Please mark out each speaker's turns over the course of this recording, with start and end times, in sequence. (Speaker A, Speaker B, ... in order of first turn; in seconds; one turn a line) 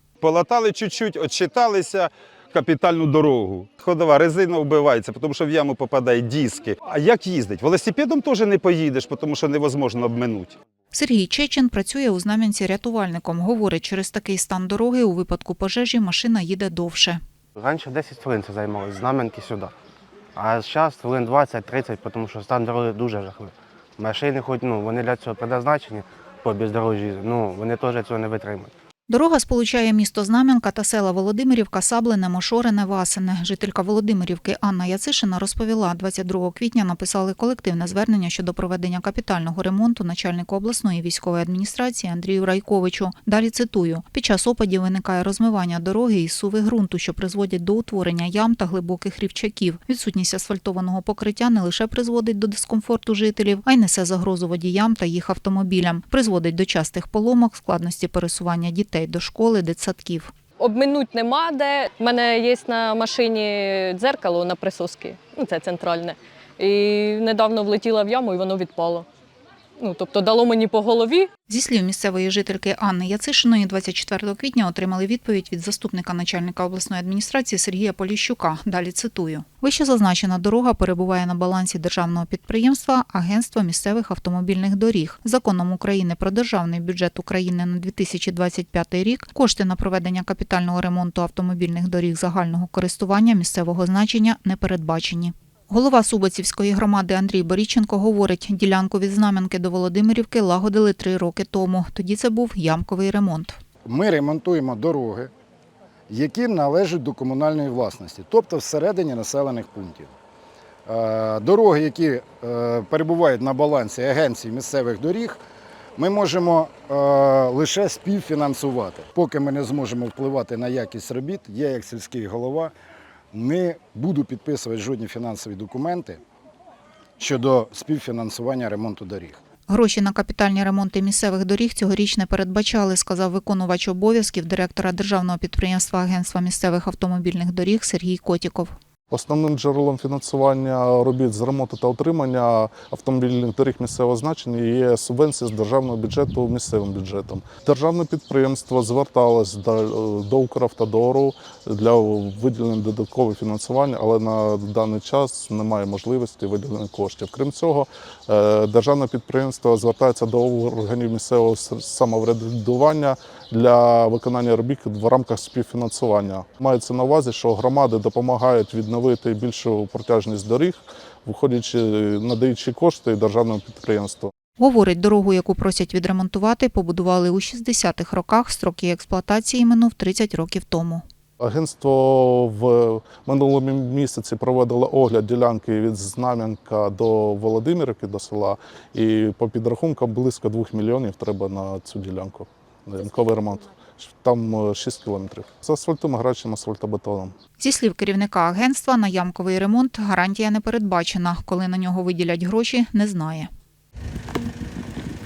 Speaker A: 2.5-3.9
Speaker A: 4.5-8.1
Speaker A: 9.6-10.4
Speaker B: 10.9-17.2
Speaker C: 17.6-19.7
Speaker C: 20.4-28.7
Speaker B: 29.1-60.3
Speaker D: 60.6-69.1
Speaker D: 69.8-71.3
Speaker B: 71.5-103.6
Speaker E: 103.9-105.3
Speaker E: 106.1-110.1
Speaker E: 110.9-115.4
Speaker E: 116.0-122.7
Speaker E: 123.3-126.2
Speaker E: 127.2-129.4
Speaker B: 129.7-138.8
Speaker F: 139.1-174.3
Speaker B: 174.6-181.0
Speaker F: 181.4-197.3
Speaker B: 197.6-203.5